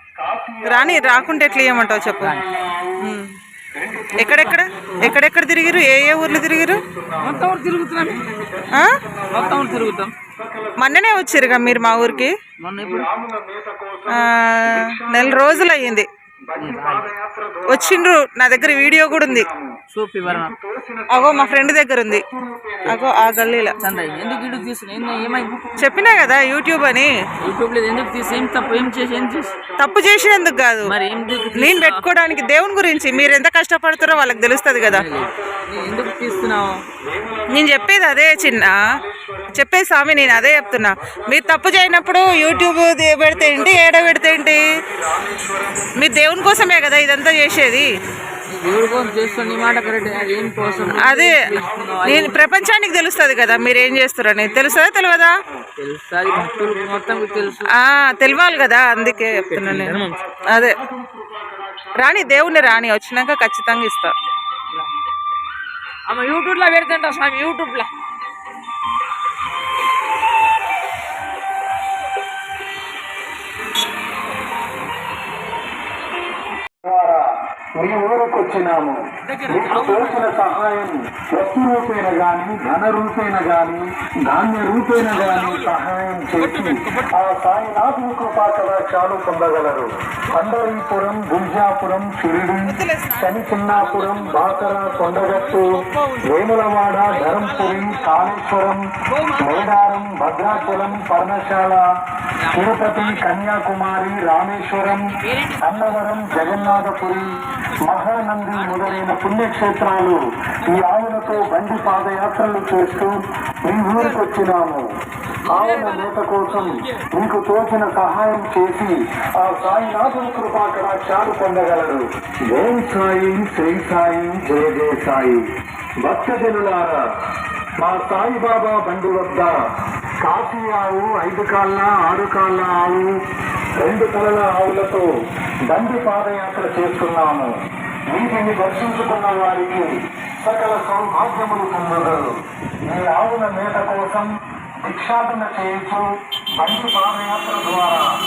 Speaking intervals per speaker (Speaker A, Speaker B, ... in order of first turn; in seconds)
Speaker A: 0.2-3.2, 3.8-26.6, 27.6-33.4, 34.0-46.8, 47.4-47.9, 48.5-55.7, 56.2-62.9, 76.8-98.8, 99.4-101.8, 102.5-114.9, 115.5-125.4, 126.0-127.0, 127.8-129.6, 130.2-133.1, 133.8-135.1, 135.7-137.5, 138.1-142.3, 142.9-144.3, 144.8-146.1, 146.6-148.1
Speaker B: 0.7-2.4, 3.0-3.3, 4.2-6.8, 10.8-12.3, 14.2-16.1, 17.7-19.5, 21.1-22.2, 22.9-23.8, 25.8-27.1, 29.8-30.9, 31.5-35.1, 37.5-38.8, 39.5-44.7, 46.0-47.9, 51.0-51.4, 52.0-55.4, 57.8-60.8, 62.0-64.1, 92.7-93.6
Speaker C: 2.2-2.5, 7.2-8.2, 9.3-10.2, 12.6-13.1, 16.6-17.1, 19.9-20.5, 23.8-25.5, 27.4-29.6, 30.8-32.1, 34.9-36.8, 48.5-52.5, 55.8-57.7, 59.2-60.2, 66.1-67.9, 79.3-80.4, 85.2-85.7, 94.0-96.2, 97.1-98.2, 99.1-101.1, 102.4-103.3, 104.8-109.2, 111.4-111.8, 115.4-117.0